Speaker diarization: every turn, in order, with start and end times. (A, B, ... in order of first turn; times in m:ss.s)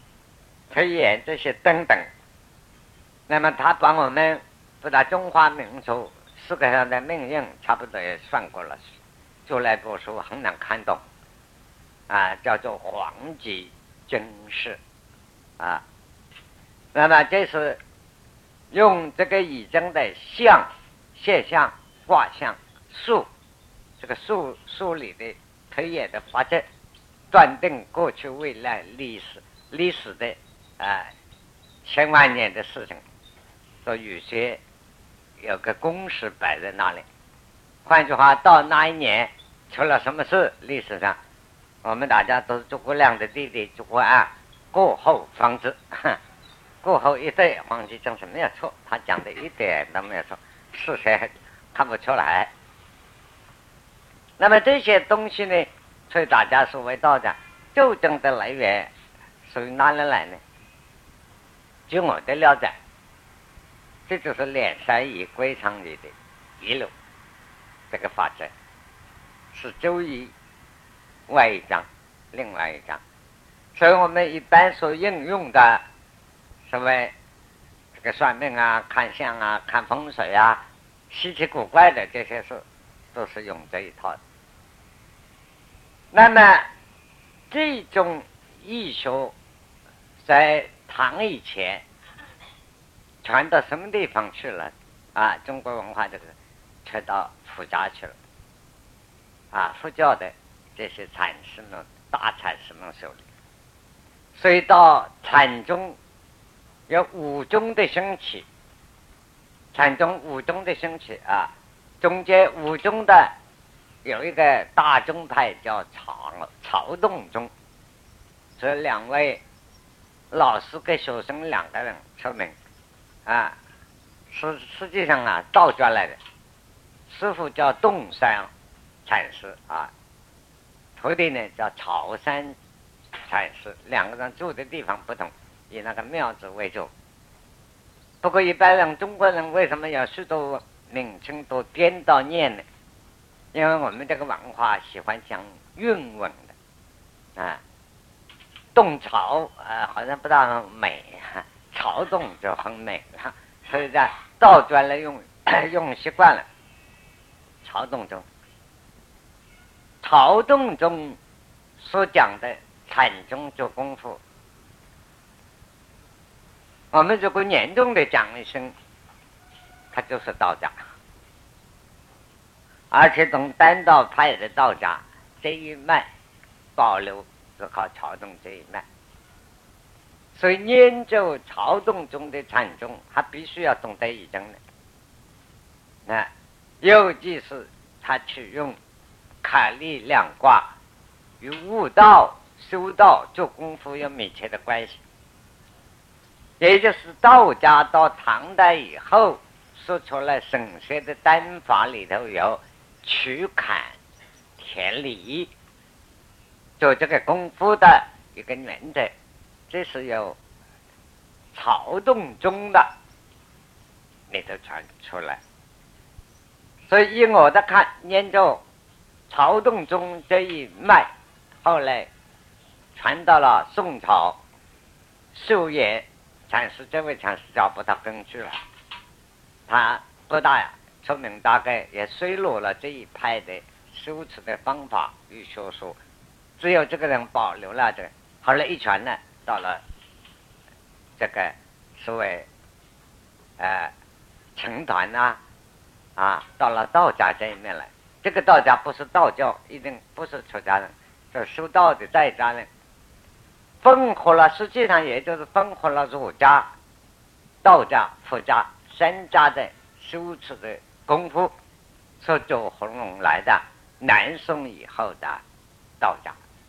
0:00.7-0:02.1 A
0:03.3-0:08.8 A
0:09.5-0:11.0 A
0:12.1-0:14.8 A
0:16.9-0:17.8 A
0:18.7-0:23.3 A
0:24.0-0:26.6 A
0:27.3-0:31.1 A
0:31.8-0:33.0 A
0:33.8-0:34.6 A
0:35.4-0:37.0 A
0:37.9-0:41.2 A
0:41.8-0:46.2 A
0:46.8-0:52.5 A
0:54.4-0:58.9 A
0:59.4-1:00.4 A
1:01.9-1:02.8 A
1:04.1-1:06.9 A
1:07.9-1:08.5 A
1:09.5-1:10.3 A
1:11.3-1:13.0 A
1:13.8-1:15.8 A
1:16.7-1:17.1 A
1:18.0-1:22.6 A
1:23.1-1:24.2 A
1:26.1-1:26.7 A
1:27.5-1:29.3 A
1:30.2-1:31.8 A
1:33.2-1:38.2 A
1:39.5-1:43.2 A
1:44.4-1:46.0 A
1:46.9-1:48.5 A
1:49.7-1:53.3 A
1:54.0-1:57.5 A
1:58.6-1:59.4 A
2:00.3-2:02.6 A
2:03.3-2:03.6 A
2:04.3-2:06.2 A
2:07.1-2:08.5 A
2:09.1-2:09.9 A
2:11.0-2:12.6 A
2:13.3-2:16.9 A
2:18.2-2:22.6 A
2:23.5-2:26.5 A
2:27.4-2:27.6 A
2:28.8-2:36.5 A
2:37.6-2:38.2 A
2:40.0-2:41.2 A
2:41.8-2:44.2 A
2:46.9-2:48.7 A
2:49.9-2:50.8 A
2:52.9-2:56.1 A
2:56.8-2:58.8 A
3:00.4-3:04.6 A
3:06.8-3:08.8 A
3:09.4-3:10.7 A
3:11.4-3:15.0 A
3:16.6-3:24.0 A
3:24.6-3:25.5 A
3:26.8-3:29.1 A
3:29.7-3:30.4 A
3:31.5-3:32.9 A
3:34.3-3:35.4 A
3:36.9-3:38.6 A
3:39.3-3:41.1 A
3:41.6-3:42.1 A
3:43.0-3:44.4 A
3:45.3-3:48.6 A
3:49.7-3:56.0 A
3:56.6-3:59.8 A
4:01.2-4:02.5 A
4:03.6-4:03.9 A
4:04.6-4:05.4 A
4:06.2-4:12.7 A
4:13.8-4:16.7 A
4:17.6-4:21.5 A
4:22.2-4:25.4 A
4:26.0-4:26.4 A